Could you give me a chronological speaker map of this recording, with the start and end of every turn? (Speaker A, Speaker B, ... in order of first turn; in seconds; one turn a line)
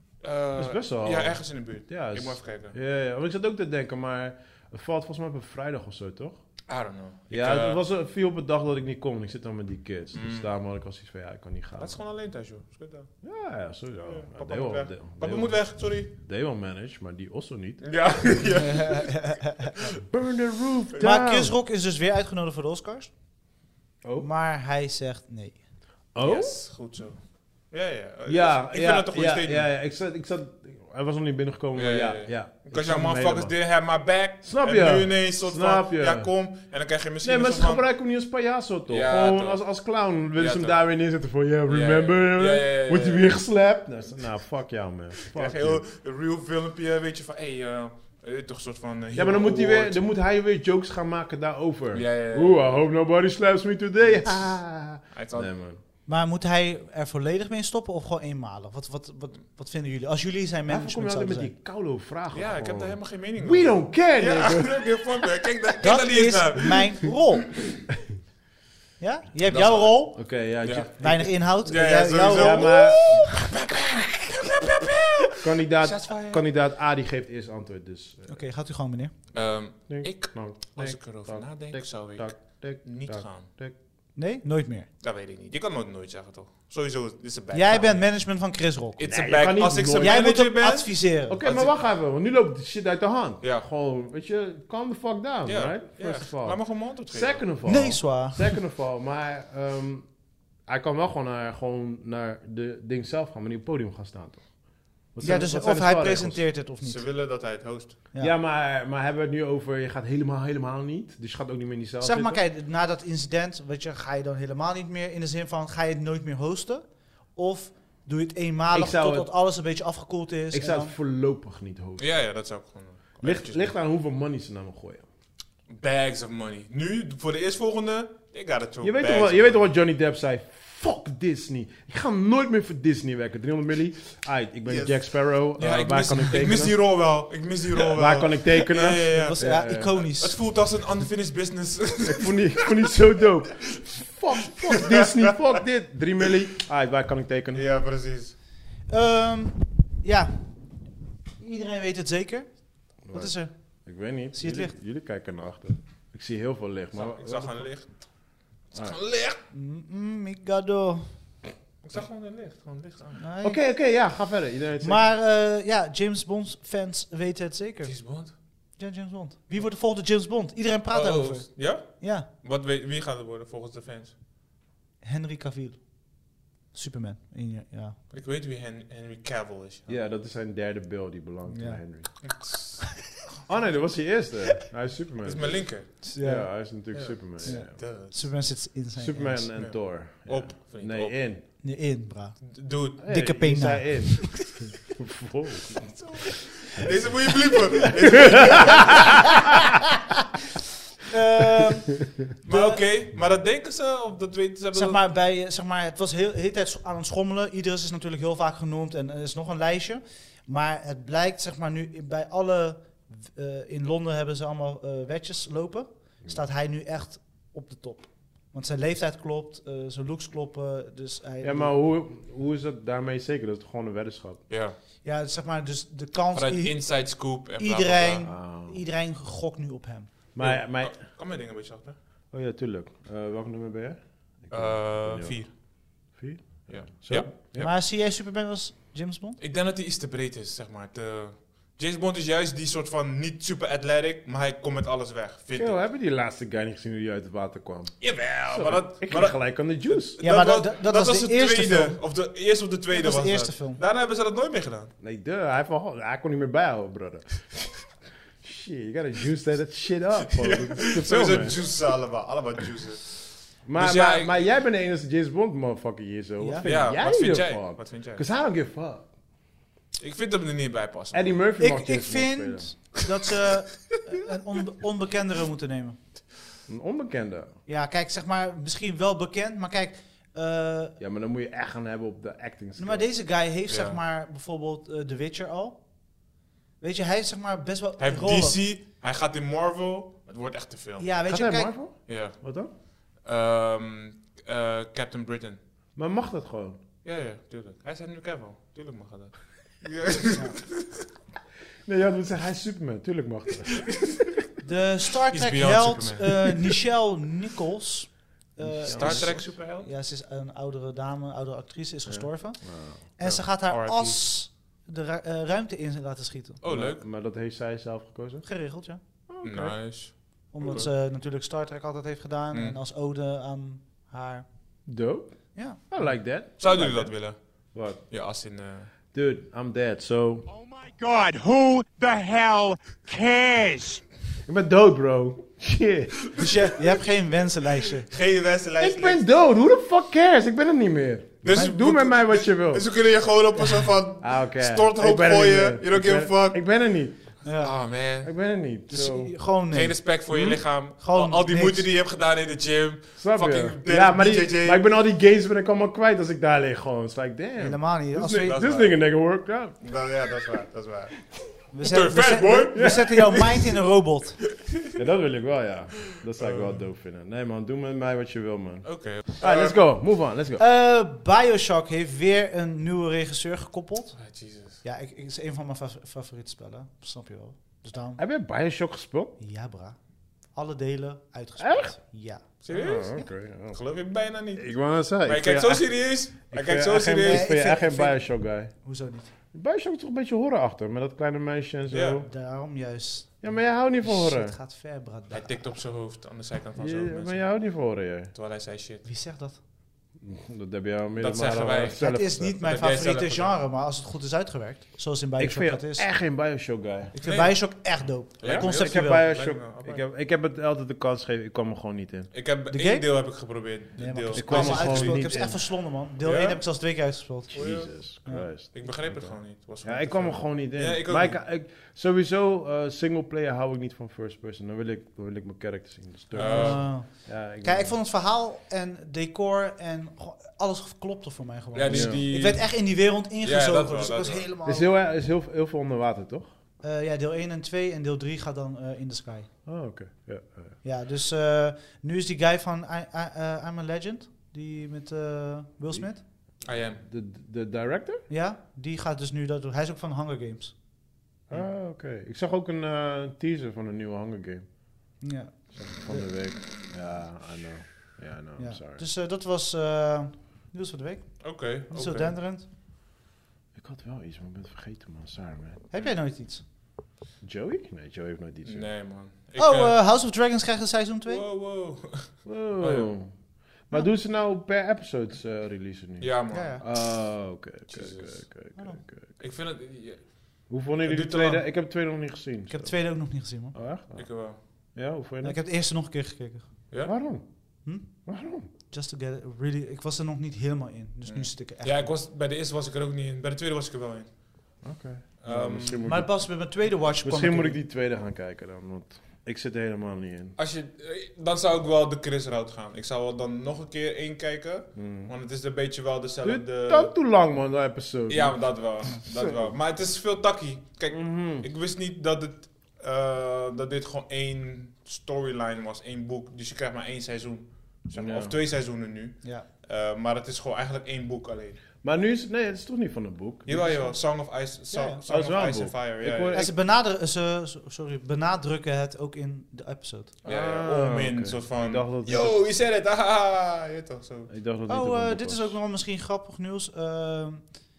Speaker A: 0.2-2.8
Speaker B: 0.6-6.4
Speaker A: 6.7-7.8
Speaker B: 7.3-12.0
Speaker A: 10.1-10.5
Speaker A: 11.8-13.2
Speaker B: 13.2-17.8
Speaker A: 14.1-16.1
Speaker A: 17.8-19.9
Speaker C: 18.7-19.7
Speaker B: 20.1-21.6
Speaker C: 21.0-23.1
Speaker B: 24.0-24.3
Speaker C: 24.2-25.6
Speaker B: 26.1-26.6
Speaker A: 26.2-29.7
Speaker B: 28.3-33.6
Speaker A: 31.8-37.9
Speaker B: 34.4-36.3
Speaker B: 37.2-45.8
Speaker A: 38.9-39.7
Speaker A: 40.3-40.9
Speaker A: 41.7-43.3
Speaker A: 45.3-50.1
Speaker B: 49.1-55.8
Speaker A: 51.9-52.6
Speaker A: 54.1-54.5
Speaker A: 55.1-55.5
Speaker C: 56.1-61.5
Speaker B: 60.7-64.8
Speaker A: 62.3-67.1
Speaker C: 65.8-67.6
Speaker C: 69.0-70.3
Speaker A: 69.5-76.4
Speaker B: 70.2-71.3
Speaker C: 71.0-73.2
Speaker B: 72.2-73.2
Speaker B: 75.4-78.4
Speaker C: 78.3-79.1
Speaker A: 79.3-83.5
Speaker B: 79.9-83.8
Speaker C: 84.2-84.9
Speaker A: 85.0-88.2
Speaker C: 87.5-89.0
Speaker A: 89.0-91.8
Speaker B: 89.0-90.3
Speaker C: 90.0-91.4
Speaker B: 91.3-100.1
Speaker A: 95.5-97.5
Speaker C: 97.7-98.5
Speaker B: 100.7-104.5
Speaker B: 105.1-106.4
Speaker C: 105.2-107.1
Speaker A: 106.8-108.0
Speaker B: 108.2-112.4
Speaker C: 112.0-120.9
Speaker B: 118.7-119.3
Speaker B: 120.5-122.0
Speaker A: 122.0-123.7
Speaker B: 123.2-125.0
Speaker A: 125.7-129.6
Speaker B: 128.8-136.8
Speaker A: 134.7-142.7
Speaker B: 137.9-139.9
Speaker C: 139.1-140.4
Speaker B: 142.0-147.7
Speaker A: 144.6-145.6
Speaker A: 147.5-148.4
Speaker C: 148.9-150.7
Speaker C: 151.4-153.5
Speaker B: 153.0-157.8
Speaker C: 154.3-154.7
Speaker A: 156.9-159.4
Speaker C: 159.5-161.1
Speaker A: 161.8-163.2
Speaker C: 163.2-163.6
Speaker B: 163.4-165.0
Speaker C: 164.8-168.1
Speaker A: 167.8-168.3
Speaker C: 168.8-172.3
Speaker A: 170.9-174.2
Speaker C: 175.0-178.0
Speaker A: 178.1-180.0
Speaker B: 179.9-182.1
Speaker C: 181.5-181.8
Speaker A: 182.2-182.9
Speaker B: 183.5-187.8
Speaker A: 185.2-186.0
Speaker C: 186.0-186.7
Speaker A: 186.9-188.2
Speaker C: 187.4-189.5
Speaker B: 189.0-191.4
Speaker A: 189.6-191.6
Speaker C: 191.6-194.3
Speaker A: 192.5-193.3
Speaker B: 193.0-195.9
Speaker A: 195.8-199.4
Speaker C: 198.1-199.6
Speaker B: 198.3-199.3
Speaker C: 201.1-202.9
Speaker A: 202.4-205.0
Speaker C: 204.7-221.7
Speaker B: 221.4-224.4
Speaker A: 224.5-224.8
Speaker C: 225.0-226.8
Speaker A: 226.3-228.3
Speaker C: 227.6-230.1
Speaker B: 228.2-228.8
Speaker B: 230.3-230.9
Speaker A: 230.4-232.0
Speaker B: 232.3-235.6
Speaker A: 234.5-235.5
Speaker B: 236.1-237.7
Speaker A: 236.7-237.6
Speaker C: 237.6-239.4
Speaker A: 239.4-245.8
Speaker B: 245.6-250.2
Speaker A: 248.0-254.9
Speaker C: 250.2-252.0
Speaker C: 252.9-253.8
Speaker B: 255.0-257.8
Speaker B: 258.4-261.6
Speaker A: 260.3-264.5
Speaker B: 263.6-269.1
Speaker C: 266.4-266.7
Speaker A: 266.6-268.2
Speaker A: 270.0-271.4
Speaker B: 271.1-272.7
Speaker C: 271.6-276.0
Speaker B: 276.7-277.6
Speaker C: 277.7-281.0
Speaker B: 281.0-283.1
Speaker C: 282.8-285.8
Speaker A: 283.7-284.0
Speaker C: 286.8-288.6
Speaker A: 288.0-291.2
Speaker C: 291.0-291.8
Speaker B: 291.3-292.7
Speaker A: 292.1-295.6
Speaker B: 296.0-296.8
Speaker A: 297.0-300.8
Speaker B: 301.9-304.1
Speaker C: 304.6-316.6
Speaker A: 305.3-306.8
Speaker B: 308.6-309.4
Speaker A: 308.9-309.9
Speaker B: 312.1-313.0
Speaker A: 313.2-314.2
Speaker A: 316.6-317.0
Speaker B: 316.7-318.5
Speaker C: 318.5-319.0
Speaker B: 319.3-319.8
Speaker A: 319.4-320.9
Speaker C: 320.5-324.4
Speaker A: 322.5-322.8
Speaker B: 324.9-327.2
Speaker C: 325.6-326.2
Speaker A: 326.6-328.9
Speaker B: 327.7-328.0
Speaker B: 329.1-330.5
Speaker D: 330.5-334.0
Speaker B: 334.5-336.3
Speaker C: 336.4-338.1
Speaker A: 338.0-339.2
Speaker B: 338.8-342.9
Speaker A: 341.4-346.6
Speaker C: 343.6-343.9
Speaker B: 344.2-347.2
Speaker C: 347.4-347.7
Speaker A: 347.6-348.3
Speaker B: 348.2-349.3
Speaker C: 348.9-350.1
Speaker A: 349.7-354.9
Speaker B: 350.3-350.6
Speaker C: 351.0-351.9
Speaker B: 353.2-359.8
Speaker C: 357.6-358.6
Speaker A: 358.4-359.0
Speaker A: 359.8-361.3
Speaker C: 361.7-364.4
Speaker A: 361.8-363.6
Speaker B: 362.7-363.4
Speaker B: 364.9-370.6
Speaker A: 366.4-366.8
Speaker A: 368.9-369.8
Speaker C: 370.6-374.2
Speaker A: 374.2-374.8
Speaker C: 374.8-378.2
Speaker B: 378.2-379.4
Speaker C: 379.4-380.0
Speaker C: 380.5-382.6
Speaker B: 381.6-381.9
Speaker A: 382.6-387.5
Speaker B: 382.7-383.8
Speaker B: 384.6-388.7
Speaker C: 387.2-389.3
Speaker B: 389.5-392.3
Speaker A: 391.9-392.2
Speaker C: 392.3-395.7
Speaker B: 393.4-394.6
Speaker A: 395.3-397.6
Speaker B: 396.8-398.3
Speaker A: 398.3-399.1
Speaker C: 399.1-399.6
Speaker B: 400.2-402.6
Speaker A: 401.2-402.0
Speaker C: 402.0-406.1
Speaker A: 402.6-403.6
Speaker B: 405.4-407.1
Speaker C: 407.1-409.2
Speaker A: 407.2-407.8
Speaker A: 408.4-410.1
Speaker B: 408.4-412.3
Speaker A: 412.3-415.5
Speaker C: 412.7-413.3
Speaker C: 414.0-418.5
Speaker B: 414.4-415.6
Speaker A: 416.2-416.6
Speaker B: 417.5-428.0
Speaker A: 417.5-417.9
Speaker A: 418.7-421.4
Speaker A: 426.4-426.9
Speaker C: 426.4-434.9
Speaker A: 431.7-434.5
Speaker B: 431.9-432.2
Speaker B: 434.6-436.5
Speaker C: 436.8-439.5
Speaker B: 439.6-440.8
Speaker C: 440.8-446.2
Speaker A: 446.6-447.0
Speaker B: 446.7-448.2
Speaker C: 448.3-450.8
Speaker B: 451.5-454.9
Speaker C: 455.2-456.5
Speaker B: 455.7-459.0
Speaker C: 458.6-462.6
Speaker A: 461.4-462.3
Speaker B: 463.8-465.9
Speaker C: 465.9-466.6
Speaker B: 467.4-468.9
Speaker A: 468.6-470.0
Speaker C: 469.6-471.4
Speaker A: 471.3-473.1
Speaker B: 472.4-479.3
Speaker A: 476.2-477.1
Speaker C: 476.5-476.8
Speaker A: 477.9-478.5
Speaker C: 478.8-479.0
Speaker A: 479.4-481.6
Speaker B: 480.7-485.6
Speaker C: 482.7-483.8
Speaker A: 484.1-484.6
Speaker C: 485.4-486.9
Speaker B: 487.0-487.5
Speaker C: 487.8-488.3
Speaker B: 488.1-488.7
Speaker C: 488.8-492.1
Speaker A: 491.3-494.4
Speaker B: 494.8-496.4
Speaker A: 495.4-496.1
Speaker C: 496.1-497.8
Speaker B: 497.2-500.6
Speaker A: 500.6-507.1
Speaker B: 504.9-505.3
Speaker B: 506.4-509.7
Speaker A: 508.3-521.9
Speaker B: 511.1-511.7
Speaker B: 518.2-518.5
Speaker B: 522.0-523.9
Speaker A: 523.7-526.7
Speaker C: 524.9-525.2
Speaker B: 525.3-526.7
Speaker C: 526.5-530.3
Speaker A: 530.4-534.5
Speaker B: 530.5-532.6
Speaker B: 534.5-535.8
Speaker C: 534.9-537.7